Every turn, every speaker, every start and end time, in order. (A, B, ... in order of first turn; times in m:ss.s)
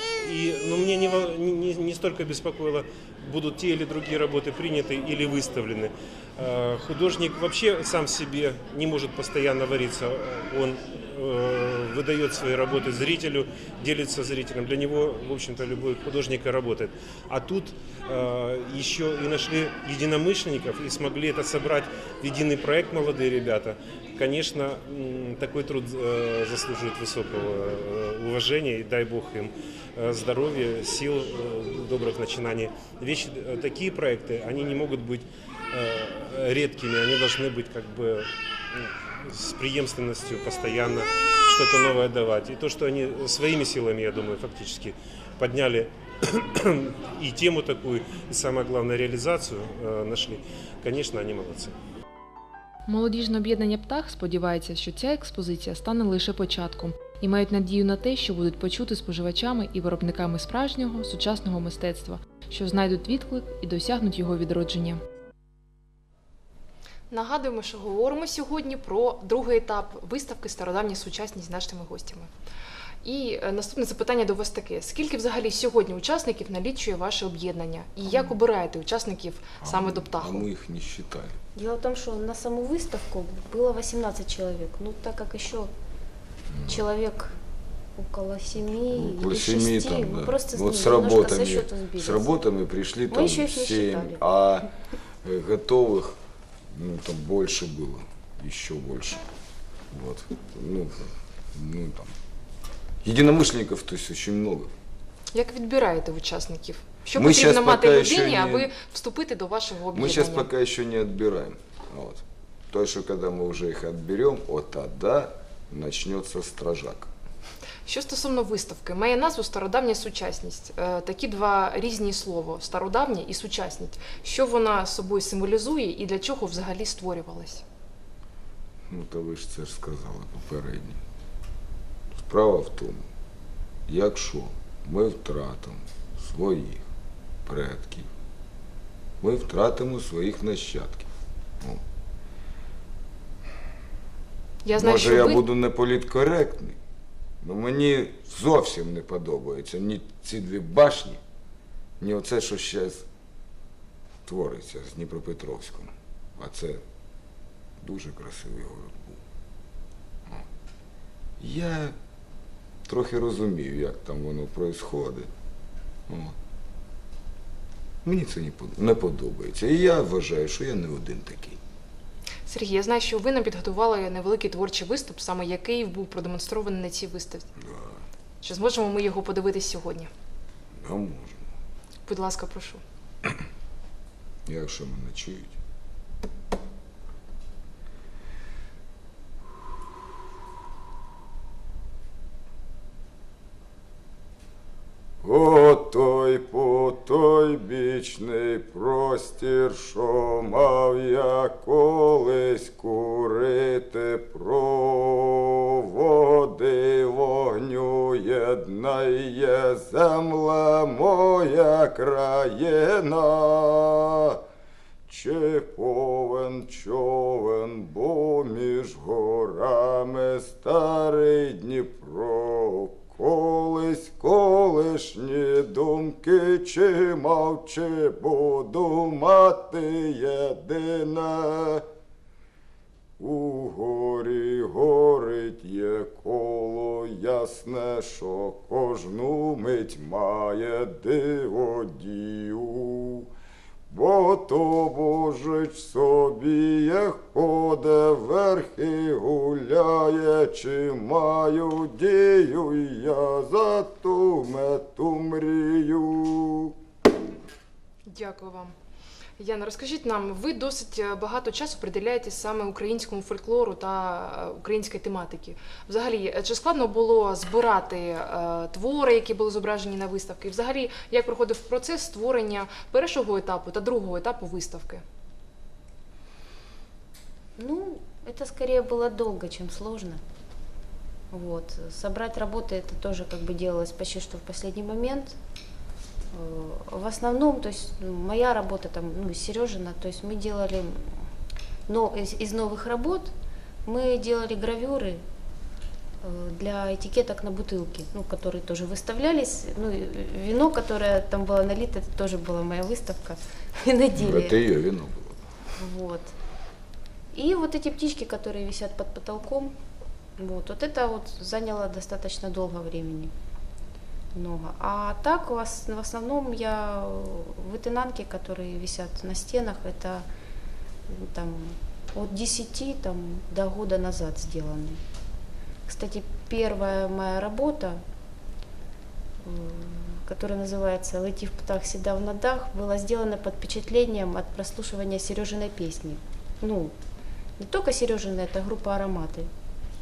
0:00.2-0:51.7 A
0:52.9-1:05.0 B
1:07.1-1:12.3 C
1:13.0-1:20.4 C
1:19.6-1:21.4 D
1:21.5-1:25.7 E
1:26.5-1:26.8 D
1:26.6-1:27.3 E
1:28.0-1:32.3 E
1:28.9-1:34.7 D
1:33.1-1:34.2 E
1:35.2-1:36.2 D
1:36.7-1:39.2 D
1:39.9-1:42.2 D
1:43.0-1:44.7 D
1:45.3-1:50.5 C
1:47.1-1:48.7 D
1:49.9-1:57.1 D
1:57.8-2:07.6 C
2:08.9-2:11.0 D
2:12.1-2:13.1 D
2:13.9-2:16.8 D
2:17.4-2:18.1 D
2:19.2-2:21.1 D
2:24.6-2:25.4 C
2:24.8-2:26.8 D
2:27.4-2:31.2 D
2:32.0-2:33.0 D
2:34.2-2:36.8 D
2:37.8-2:39.2 D
2:41.4-2:42.0 D
2:42.8-2:45.3 D
2:46.1-2:46.4 D
2:48.0-2:51.6 D
2:52.5-2:57.5 C
2:57.6-2:58.0 D
2:58.4-3:00.1 C
3:00.8-3:01.5 D
3:02.1-3:02.8 C
3:04.5-3:05.6 D
3:15.2-3:34.4 D
3:35.1-3:51.8 D
3:53.2-4:03.3 D
4:03.9-4:16.8 D
4:18.0-4:18.7 C
4:19.4-4:35.0 C
4:37.6-4:40.2 E
4:41.3-4:45.4 E
4:46.3-4:51.2 E
4:51.9-4:53.3 E
4:53.8-4:55.2 E
4:56.2-5:04.6 E
5:04.1-5:05.4 D
5:05.8-5:06.3 E
5:07.3-5:09.7 E
5:10.4-5:13.3 E
5:14.3-5:20.2 E
5:21.1-5:25.0 E
5:25.9-5:28.0 E
5:29.4-5:36.9 E
5:37.6-5:39.5 E